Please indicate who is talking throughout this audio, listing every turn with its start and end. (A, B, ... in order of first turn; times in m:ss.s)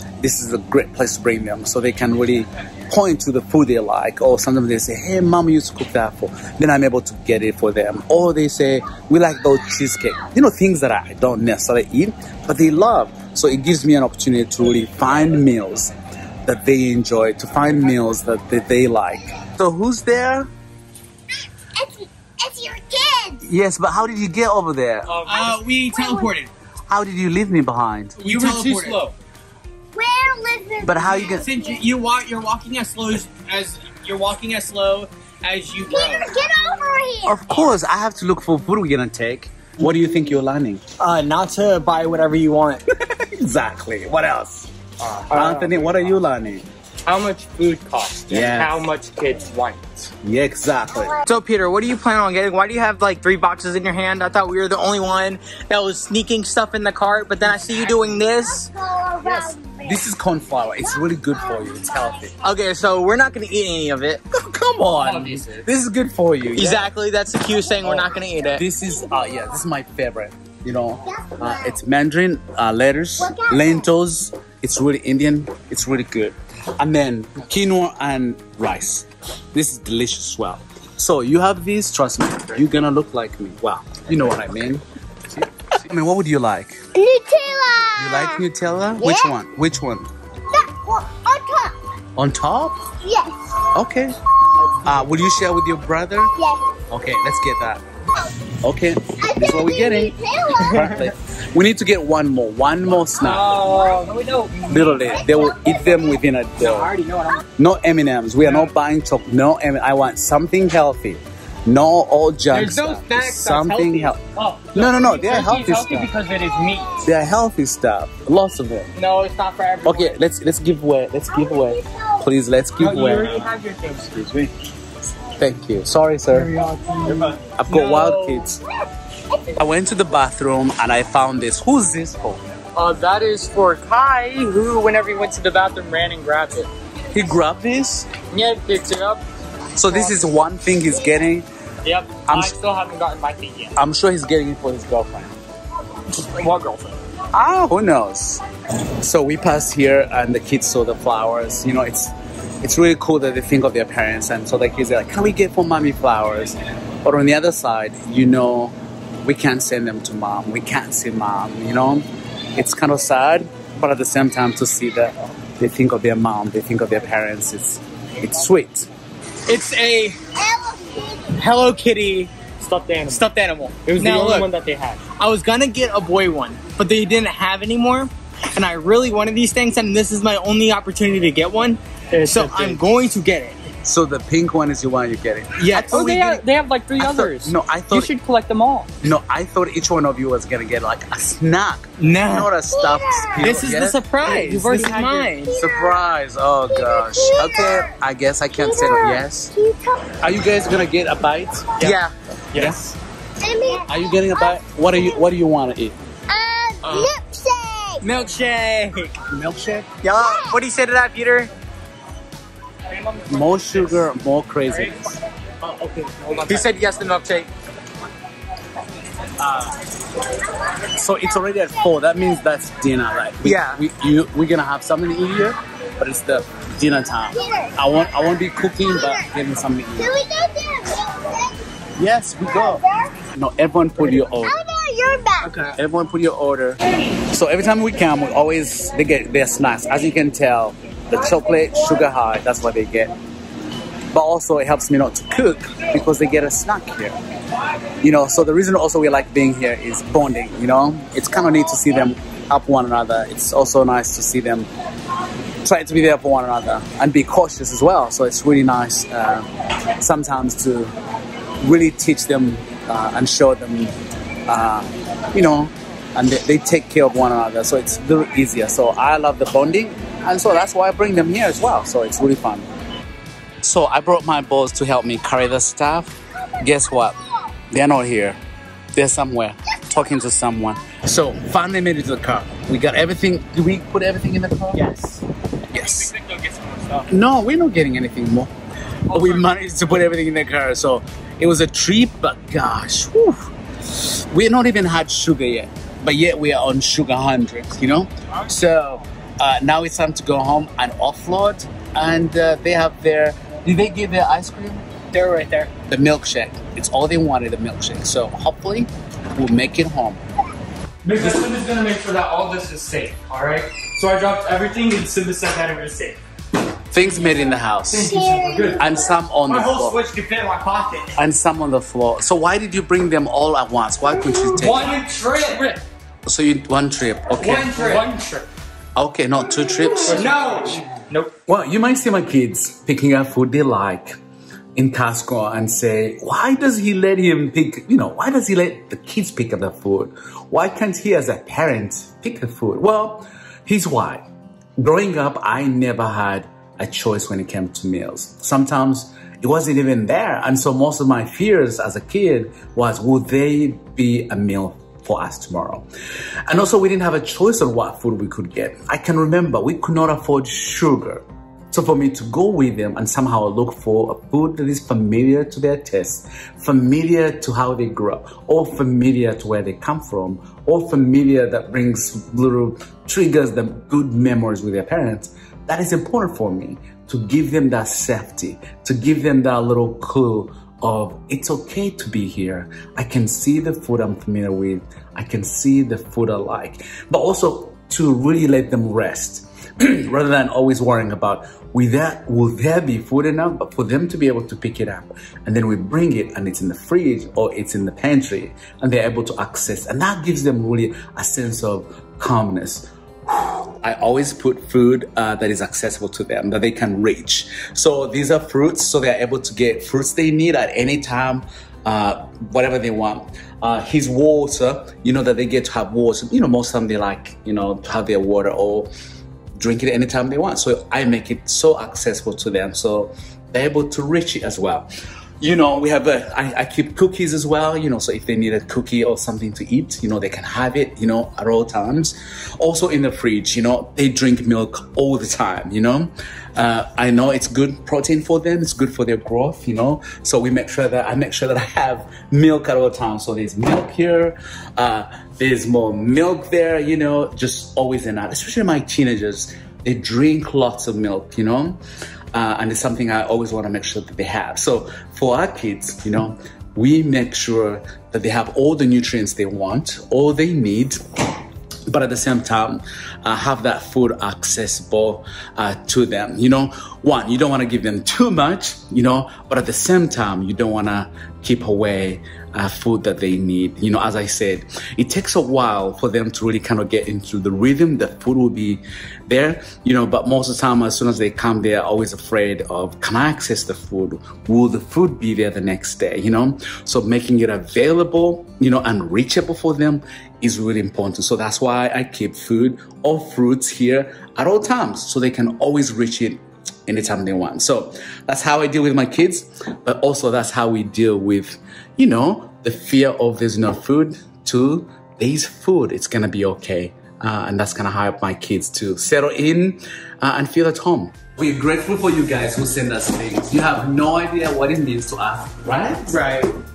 0:00.2-0:15.9 A
0:16.4-0:20.5 A
0:21.6-0:23.4 B
0:23.4-0:25.2 A
0:25.0-0:25.5 C
0:25.2-0:26.5 D
0:25.4-0:26.3 B
0:26.9-0:28.2 A
0:28.2-0:29.1 D
0:28.2-0:29.1 C
0:29.9-0:31.8 B
0:30.8-0:31.5 A
0:31.3-0:36.4 D
0:35.9-0:37.7 B
0:37.2-0:40.8 A
0:41.0-0:42.8 D
0:42.9-0:44.7 A
0:45.0-0:46.2 C
0:45.3-0:46.6 A
0:47.0-0:50.1 C
0:48.3-0:48.9 A
0:50.2-0:51.2 A
0:51.2-0:58.7 D
0:58.6-1:00.0 B
0:59.2-1:02.3 A
1:00.8-1:01.8 B
1:02.4-1:04.2 D
1:04.3-1:06.9 A
1:04.9-1:05.7 C
1:06.6-1:08.6 D
1:07.8-1:26.9 A
1:11.1-1:11.7 B
1:13.2-1:13.9 B
1:26.9-1:28.4 B
1:28.0-1:30.1 A
1:29.0-1:29.3 B
1:30.5-1:31.7 B
1:32.2-1:32.9 A
1:33.0-1:33.6 B
1:33.7-1:34.2 A
1:34.6-1:35.1 C
1:34.8-1:36.3 A
1:36.3-1:36.8 B
1:36.9-1:37.8 A
1:38.6-1:43.6 A
1:39.2-1:40.9 B
1:43.2-1:45.2 C
1:43.5-1:44.1 B
1:44.7-1:46.9 A
1:45.0-1:46.2 B
1:46.6-1:47.4 D
1:47.6-1:54.2 A
1:52.5-1:54.1 D
1:54.3-1:57.1 C
1:54.7-1:56.1 A
1:56.8-1:57.1 B
1:57.0-1:58.9 A
1:58.9-2:00.2 D
1:59.8-2:03.5 A
2:01.3-2:02.2 B
2:02.8-2:04.1 C
2:04.1-2:04.5 A
2:05.3-2:06.5 A
2:06.4-2:07.4 C
2:06.6-2:08.5 D
2:07.6-2:08.6 A
2:09.5-2:12.4 A
2:12.7-2:16.7 C
2:17.1-2:18.1 A
2:18.3-2:19.2 C
2:19.8-2:21.5 A
2:21.8-2:23.8 C
2:22.3-2:22.5 A
2:23.7-2:25.3 A
2:26.1-2:27.0 C
2:27.3-2:28.4 A
2:29.0-2:48.9 A
2:49.5-2:50.2 D
2:50.4-2:51.3 B
2:51.3-2:52.3 D
2:52.6-2:53.2 C
2:53.1-2:54.5 D
2:53.8-2:55.0 C
2:55.2-3:03.7 D
3:02.1-3:02.8 C
3:03.8-3:06.4 A
3:05.6-3:05.9 D
3:05.9-3:08.9 C
3:07.0-3:08.1 A
3:09.0-3:14.0 A
3:12.0-3:12.5 D
3:12.7-3:13.6 B
3:13.4-3:15.6 D
3:14.2-3:15.3 C
3:15.4-3:16.0 B
3:15.5-3:19.5 A
3:16.7-3:18.0 B
3:18.5-3:20.1 B
3:20.2-3:21.7 A
3:21.8-3:22.1 D
3:22.5-3:22.9 C
3:22.5-3:22.8 A
3:23.4-3:25.2 B
3:23.8-3:26.0 A
3:26.3-3:28.0 B
3:26.8-3:27.1 C
3:28.0-3:29.1 D
3:29.3-3:29.9 A
3:30.0-3:31.5 D
3:30.2-3:30.6 B
3:32.9-3:34.0 C
3:33.3-3:35.2 A
3:34.6-3:37.0 C
3:36.5-3:37.5 D
3:39.4-3:39.8 A
3:40.8-3:50.2 A
3:43.4-3:43.8 D
3:47.3-3:47.9 B
3:48.8-3:49.3 B
3:50.0-3:51.6 B
3:52.0-3:54.6 A
3:52.5-3:53.2 B
3:54.4-3:55.5 B
3:55.4-3:55.8 D
3:55.7-4:03.1 A
4:04.1-4:07.2 A
4:08.0-4:14.7 A
4:15.6-4:20.9 A
4:21.6-4:23.9 A
4:24.5-4:32.7 A
4:33.6-4:37.2 A
4:37.7-4:38.4 A
4:38.9-4:44.8 A
4:44.7-4:45.2 D
4:45.7-4:47.1 C
4:45.7-4:46.1 A
4:47.1-4:48.5 A
4:49.1-4:49.6 C
4:49.1-5:04.8 A
4:58.3-4:58.6 C
5:05.1-5:05.7 D
5:05.9-5:10.2 A
5:11.0-5:16.2 C
5:16.9-5:18.2 A
5:17.0-5:18.9 C
5:17.9-5:18.9 B
5:18.7-5:20.0 A
5:19.5-5:21.2 D
5:21.2-5:25.0 A
5:24.5-5:25.8 C
5:24.7-5:25.6 D
5:26.2-5:27.9 A
5:27.4-5:28.5 C
5:27.4-5:28.0 D
5:29.0-5:30.3 A
5:30.0-5:31.3 C
5:30.0-5:30.8 D
5:31.5-5:34.2 A
5:34.8-5:44.2 A
5:44.8-5:55.8 A
5:56.5-6:58.9 A
6:59.6-7:04.9 A
7:05.4-7:31.8 A
7:32.3-7:41.0 A
7:41.9-8:36.2 A
8:36.1-8:36.6 D